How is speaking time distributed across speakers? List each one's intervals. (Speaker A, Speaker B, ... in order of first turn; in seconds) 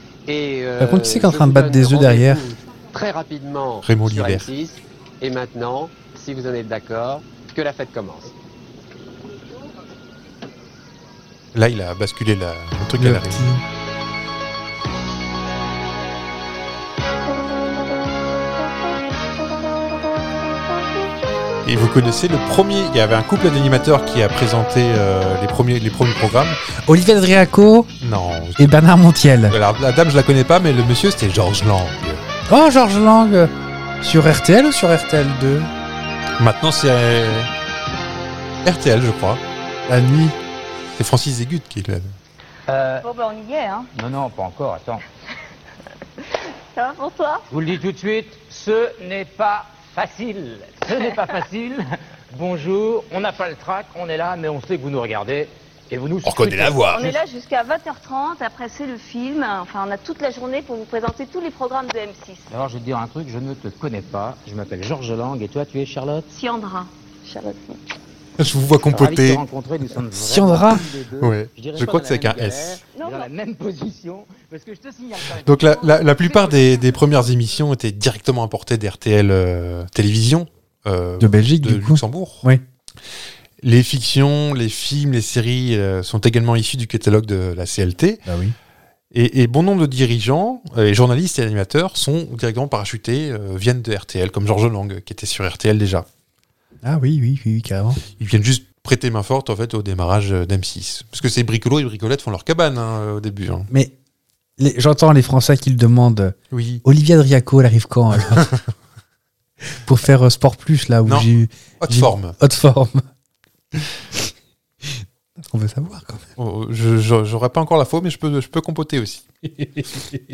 Speaker A: 0.3-8.3
Speaker B: 0.8-2.4, 13.0-13.6, 26.9-27.9, 28.6-29.6, 32.5-35.7, 39.9-40.4, 70.1-70.8, 81.2-82.6, 88.2-88.5, 96.8-98.0, 104.6-108.5, 109.8-113.0, 115.4-116.2, 119.5-120.2
Speaker C: 3.8-4.5, 11.5-13.6, 21.6-26.6, 28.0-28.8, 29.5-32.2, 36.4-37.5, 38.6-39.4, 41.0-42.1, 56.2-57.1, 68.4-69.4, 71.2-72.8, 75.4-82.5, 83.6-88.2, 89.1-96.1, 98.1-103.7, 106.5-106.8, 111.8-112.4, 116.4-119.2
Speaker D: 42.7-43.1, 43.9-45.0, 47.5-57.2, 62.5-66.3, 68.9-77.3
Speaker E: 43.0-43.9, 46.7-47.4, 56.9-62.5, 66.3-67.8, 72.9-73.3